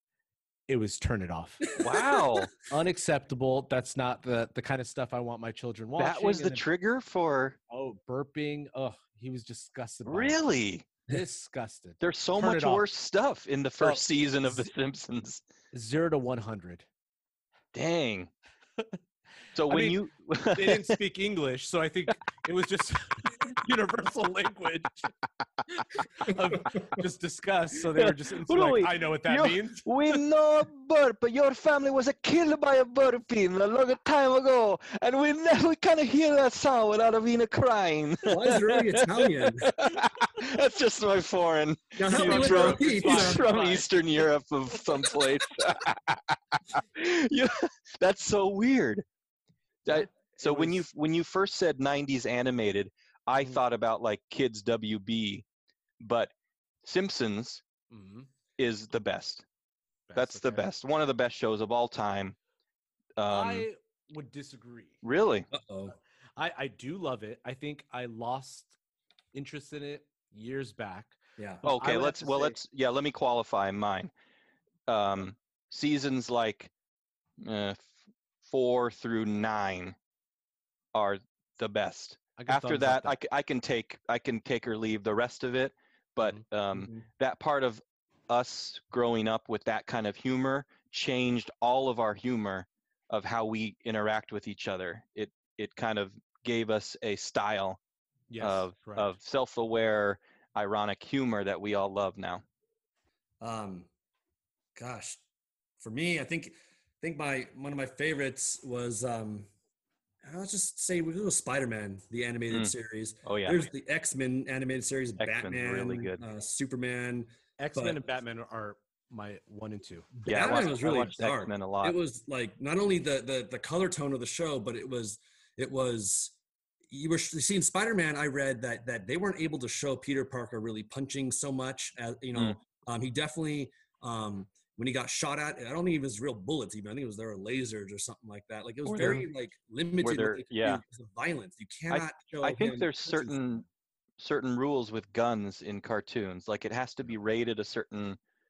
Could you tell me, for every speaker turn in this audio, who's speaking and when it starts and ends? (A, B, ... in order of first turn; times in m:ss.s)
0:00.7-0:01.7 A
0:01.8-0:02.5 B
0:02.7-0:06.6 A
0:06.0-0:07.6 B
0:07.7-0:10.4 A
0:10.0-0:10.8 B
0:11.1-0:12.8 A
0:12.0-0:15.4 B
0:13.8-0:14.7 A
0:15.7-0:16.8 A
0:17.7-0:18.3 B
0:19.5-0:21.0 B
0:19.7-0:20.0 A
0:20.5-0:25.1 A
0:25.7-0:29.9 A
0:28.0-0:46.2 B
0:38.2-0:39.7 C
0:42.0-0:43.4 C
0:42.1-0:43.9 A
0:46.7-0:49.0 B
0:49.8-0:55.4 B
0:49.9-0:50.8 A
0:56.0-0:56.3 B
0:56.8-0:57.6 B
0:57.9-0:58.3 A
0:58.6-0:59.4 B
1:00.1-1:00.7 A
1:00.1-1:02.3 B
1:03.2-1:03.6 B
1:03.3-1:05.0 A
1:05.0-1:05.5 B
1:05.5-1:05.9 C
1:06.4-1:08.7 A
1:09.3-1:12.6 A
1:11.4-1:11.6 C
1:11.6-1:14.1 B
1:14.9-1:16.7 B
1:17.4-1:17.9 B
1:18.4-1:20.0 B
1:20.9-1:37.8 B
1:22.4-1:23.1 A
1:26.8-1:27.0 C
1:38.3-1:39.2 A
1:38.4-1:42.4 B
1:43.4-1:43.9 C
1:44.8-1:45.2 C
1:45.8-1:49.5 C
1:50.2-1:58.0 C
1:53.2-1:53.7 B
1:55.2-1:56.2 B
1:57.6-2:00.1 A
2:00.2-2:06.3 C
2:00.2-2:02.0 B
2:06.9-2:23.5 C
2:18.8-2:19.2 B
2:20.0-2:20.8 B
2:21.9-2:23.6 B
2:24.2-2:28.2 B